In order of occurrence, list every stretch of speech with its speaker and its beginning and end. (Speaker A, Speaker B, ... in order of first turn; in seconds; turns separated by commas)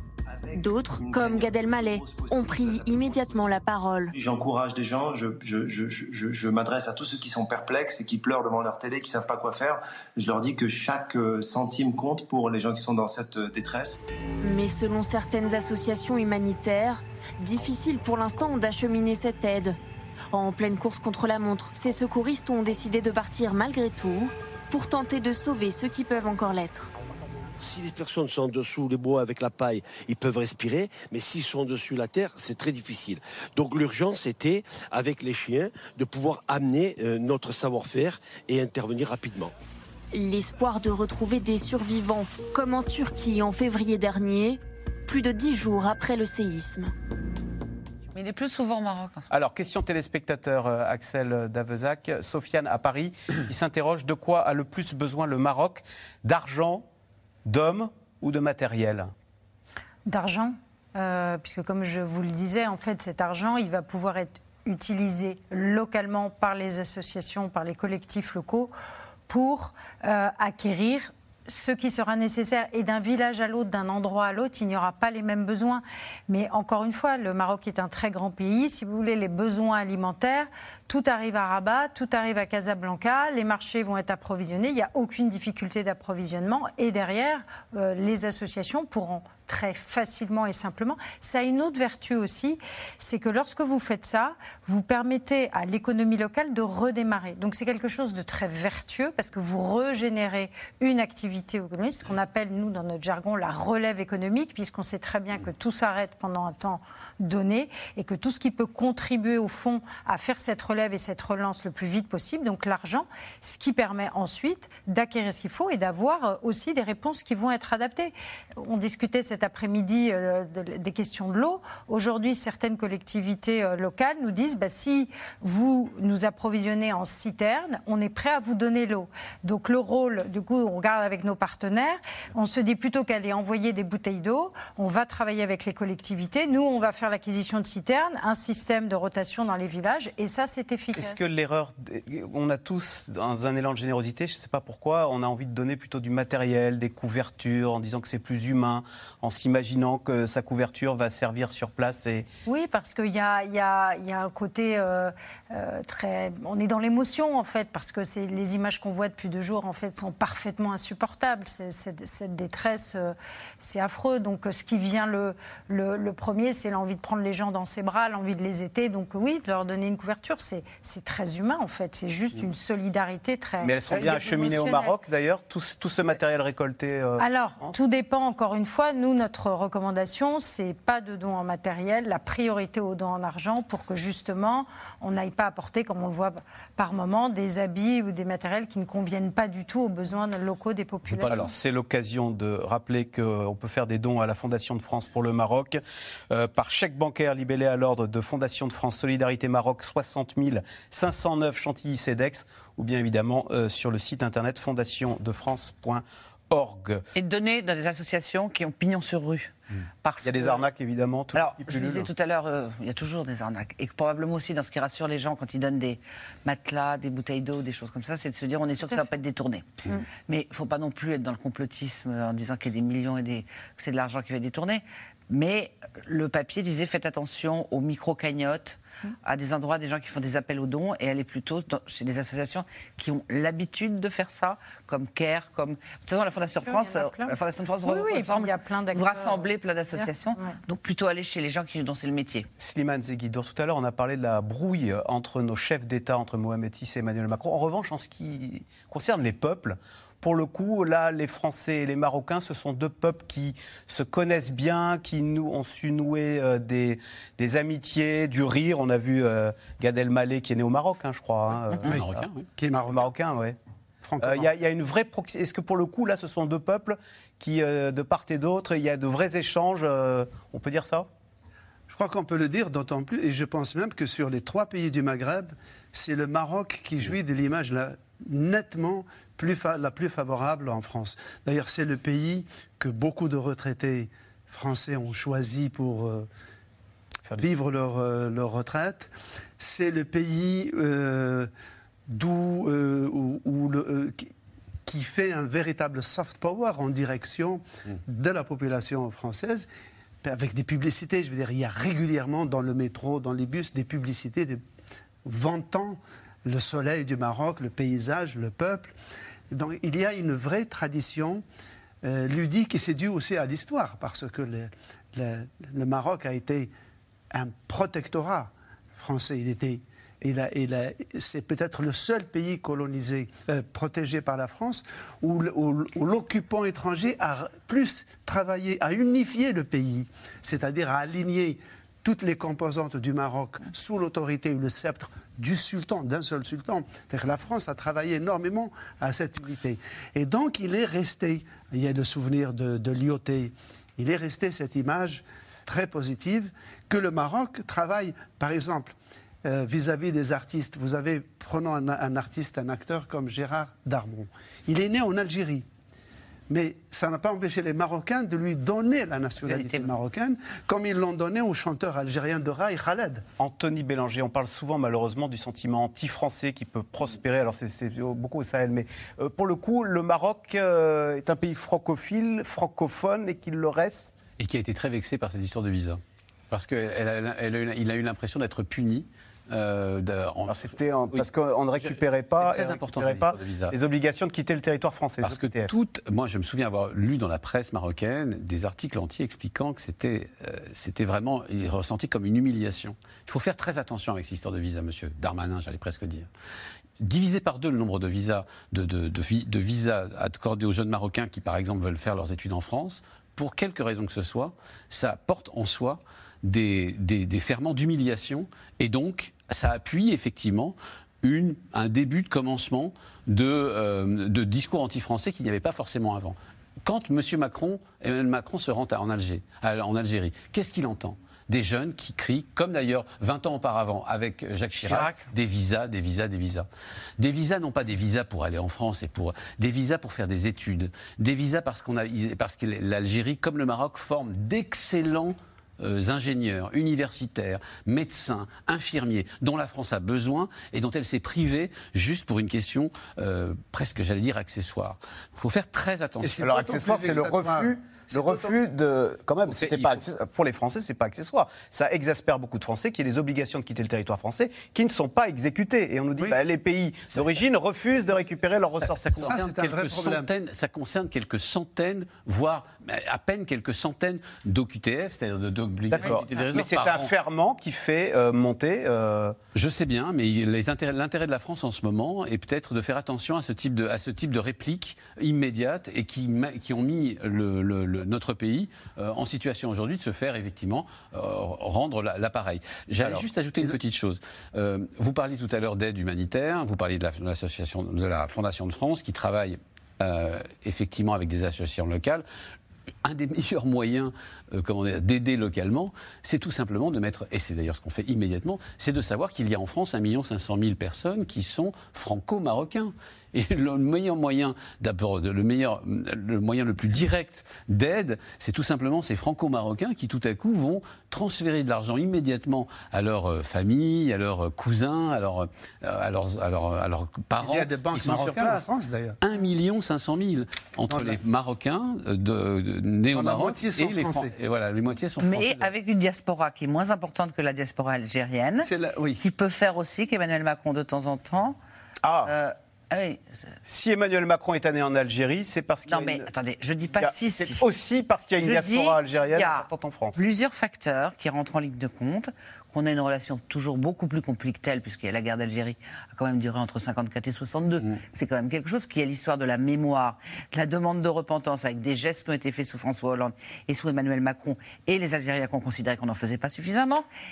Speaker A: 0.4-3.6, Speaker B: 0.5-4.1, Speaker A: 4.1-14.0, Speaker B: 14.4-19.8, Speaker B: 20.3-26.9, Speaker C: 27.6-39.5, Speaker B: 40.1-46.9, Speaker D: 48.1-49.3, Speaker E: 49.3-56.9, Speaker E: 57.5-59.1, Speaker F: 60.1-68.7, Speaker F: 69.3-141.3, Speaker E: 140.9-152.3, Speaker F: 152.5-174.9, Speaker E: 173.6-177.8, Speaker F: 177.2-191.5, Speaker G: 191.1-191.5, Speaker E: 191.3-207.0, Speaker D: 207.2-210.6, Speaker E: 210.2-212.1, Speaker D: 211.3-242.5, Speaker F: 236.6-237.3, Speaker F: 237.8-239.4, Speaker F: 240.0-240.6, Speaker E: 242.6-262.2, Speaker G: 261.8-262.5, Speaker H: 262.6-263.1, Speaker E: 262.9-263.6, Speaker H: 264.0-264.5, Speaker E: 264.2-271.1, Speaker H: 271.9-286.3, Speaker E: 287.2-287.5, Speaker H: 287.4-291.5, Speaker H: 292.1-294.3, Speaker H: 294.9-299.7, Speaker H: 300.2-304.6, Speaker H: 305.2-308.9, Speaker H: 309.5-311.4, Speaker H: 312.0-316.7, Speaker H: 317.3-355.7, Speaker H: 356.5-363.2, Speaker D: 359.4-359.9, Speaker E: 363.4-374.1, Speaker G: 374.4-381.3, Speaker E: 380.5-385.7, Speaker G: 381.8-383.7, Speaker G: 385.2-396.3, Speaker G: 397.0-426.7, Speaker D: 424.8-425.2, Speaker G: 427.2-446.7, Speaker H: 446.2-448.5, Speaker E: 446.4-459.4, Speaker G: 449.5-450.0, Speaker G: 458.8-467.1, Speaker H: 459.1-460.3, Speaker E: 465.9-469.4, Speaker G: 469.6-492.2, Speaker H: 483.0-483.7, Speaker G: 493.0-518.7, Speaker H: 517.4-519.2, Speaker G: 519.2-525.7, Speaker H: 520.9-521.2, Speaker H: 523.1-524.3, Speaker D: 525.2-531.6, Speaker H: 528.6-529.2, Speaker E: 532.0-532.3, Speaker D: 532.2-533.5, Speaker E: 533.6-536.3, Speaker D: 535.9-537.6, Speaker E: 537.0-540.2, Speaker D: 538.4-539.6, Speaker D: 540.2-557.1